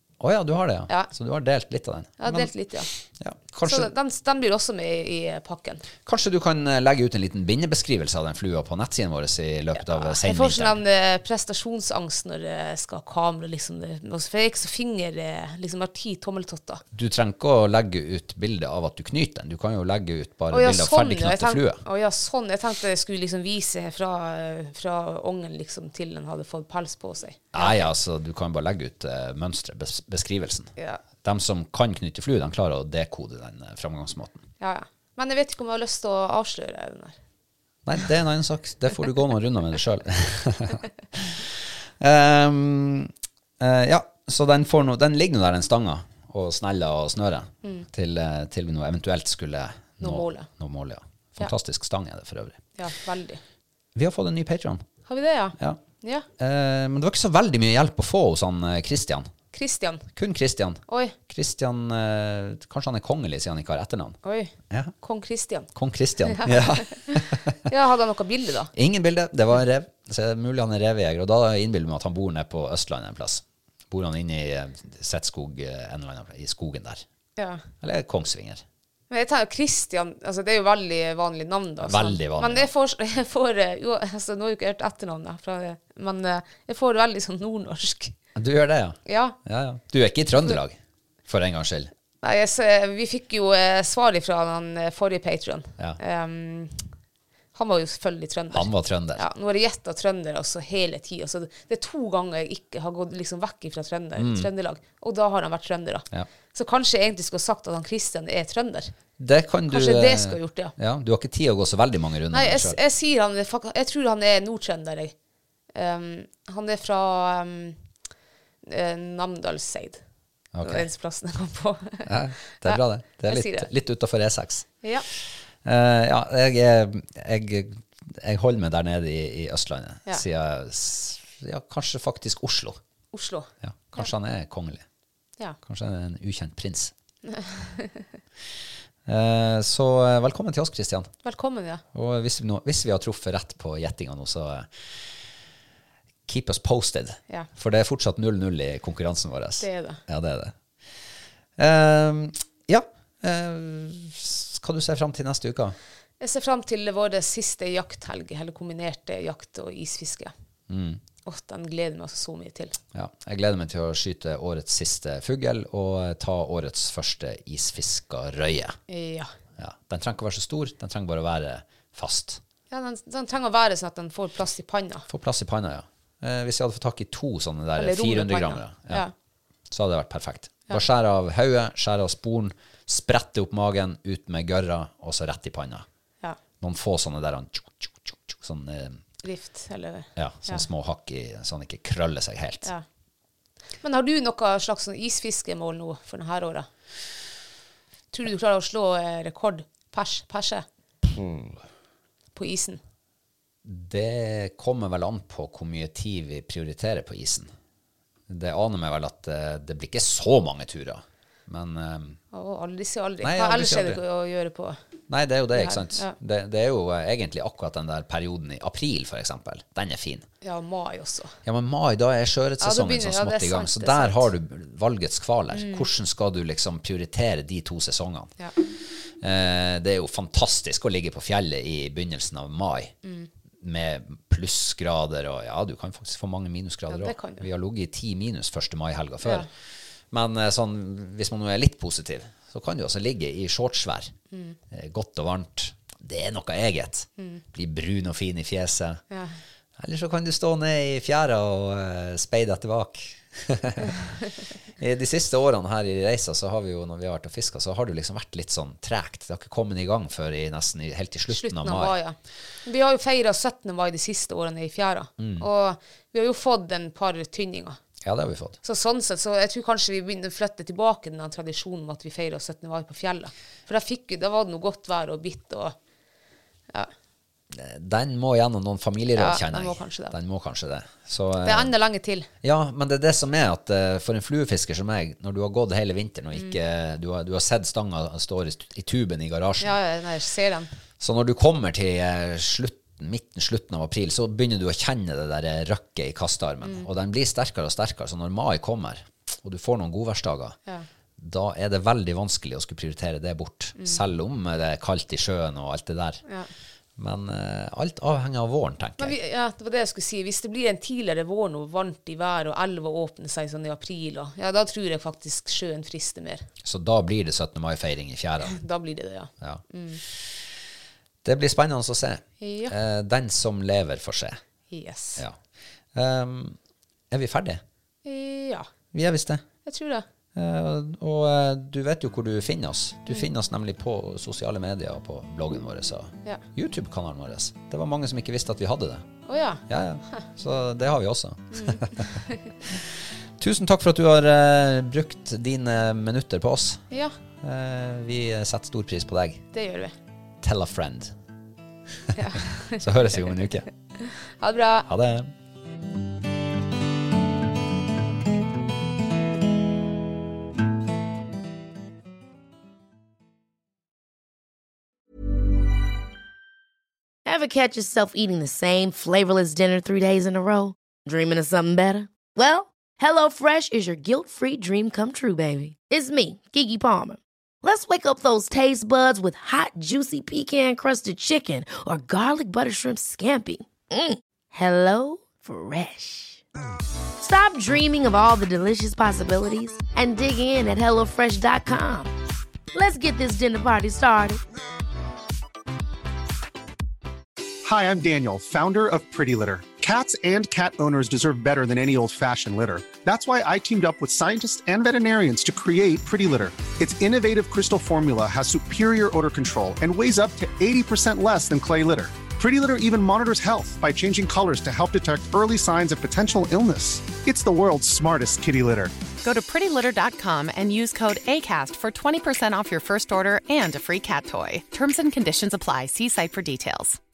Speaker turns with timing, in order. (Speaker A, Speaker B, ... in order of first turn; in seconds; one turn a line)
Speaker A: 0.2-3.9
Speaker B: 2.2-2.9
Speaker B: 3.6-5.8
Speaker A: 6.0-10.8
Speaker B: 9.8-16.8
Speaker A: 16.9-21.8
Speaker B: 20.5-27.9
Speaker A: 27.5-34.4
Speaker B: 30.8-31.0
Speaker B: 34.6-37.2
Speaker A: 37.9-52.6
Speaker B: 50.0-50.5
Speaker B: 52.8-53.4
Speaker A: 53.9-54.8
Speaker B: 55.1-56.3
Speaker A: 56.4-59.3
Speaker B: 59.5-60.1
Speaker A: 60.1-64.9
Speaker B: 60.9-61.1
Speaker B: 64.2-65.7
Speaker A: 65.7-67.6
Speaker B: 66.2-68.7
Speaker A: 68.7-77.0
Speaker B: 77.4-77.7
Speaker A: 77.8-78.6
Speaker B: 79.1-88.1
Speaker A: 81.8-82.7
Speaker A: 88.3-91.9
Speaker B: 89.0-89.4
Speaker B: 92.2-96.9
Speaker B: 97.5-108.9
Speaker A: 98.5-99.2
Speaker A: 104.2-104.5
Speaker A: 109.2-112.8
Speaker B: 109.7-110.7
Speaker B: 112.3-115.1
Speaker B: 115.7-117.8
Speaker B: 118.6-120.0
Speaker A: 120.5-120.8
Speaker B: 120.6-123.7
Speaker A: 122.0-132.8
Speaker B: 133.1-134.1
Speaker A: 133.6-134.8
Speaker A: 135.6-136.9
Speaker B: 137.2-138.1
Speaker A: 139.1-141.1
Speaker B: 141.2-141.8
Speaker A: 141.9-144.7
Speaker A: 146.3-150.5
Speaker B: 149.6-150.0
Speaker A: 151.6-155.8
Speaker B: 156.2-160.3
Speaker A: 160.7-161.0
Speaker B: 161.2-162.8
Speaker A: 162.9-168.8
Speaker B: 168.9-169.3
Speaker A: 169.6-172.4
Speaker B: 172.7-175.1
Speaker A: 175.1-179.0
Speaker B: 177.8-179.1
Speaker A: 179.7-185.8
Speaker A: 186.6-189.0
Speaker B: 189.2-190.6
Speaker A: 190.2-192.7
Speaker B: 193.8-196.7
Speaker B: 198.1-200.7
Speaker A: 201.2-201.5
Speaker B: 202.3-202.8
Speaker A: 203.6-207.5
Speaker A: 208.3-212.2
Speaker B: 212.3-214.8
Speaker A: 213.2-214.0
Speaker A: 215.1-220.2
Speaker B: 215.5-216.1
Speaker B: 220.4-221.3
Speaker A: 221.4-232.9
Speaker B: 222.6-224.3
Speaker B: 225.5-225.9
Speaker B: 233.0-233.3
Speaker A: 233.6-239.5
Speaker B: 236.9-237.4
Speaker B: 239.2-239.5
Speaker A: 240.1-244.1
Speaker B: 244.3-244.6
Speaker A: 244.7-249.0
Speaker B: 249.1-249.4
Speaker A: 249.8-254.2
Speaker A: 254.8-262.0
Speaker B: 261.3-267.8
Speaker A: 265.2-265.5
Speaker A: 268.0-268.6
Speaker B: 268.6-275.7
Speaker A: 277.5-281.7
Speaker B: 279.1-280.1
Speaker B: 281.4-282.3
Speaker A: 282.4-289.8
Speaker B: 289.6-290.7
Speaker A: 291.0-300.6
Speaker A: 301.2-306.2
Speaker A: 307.0-309.2
Speaker B: 309.0-316.5
Speaker A: 316.6-318.6
Speaker B: 318.4-320.0
Speaker A: 319.4-320.4
Speaker A: 321.2-324.4
Speaker B: 322.4-322.7
Speaker B: 324.7-325.2
Speaker A: 325.9-326.6
Speaker A: 327.1-327.6
Speaker B: 328.0-328.7
Speaker A: 328.9-329.4
Speaker B: 329.6-330.0
Speaker A: 330.3-339.1
Speaker B: 339.3-339.6
Speaker A: 339.7-346.8
Speaker B: 341.5-342.5
Speaker A: 347.4-349.4
Speaker B: 349.5-349.9
Speaker A: 350.4-351.1
Speaker B: 352.1-352.9
Speaker A: 352.1-353.7
Speaker B: 354.0-354.9
Speaker A: 354.9-355.3
Speaker C: 367.2-386.4
Speaker C: 387.2-392.1
Speaker C: 392.7-394.4
Speaker D: 397.6-418.9
Speaker E: 419.2-427.0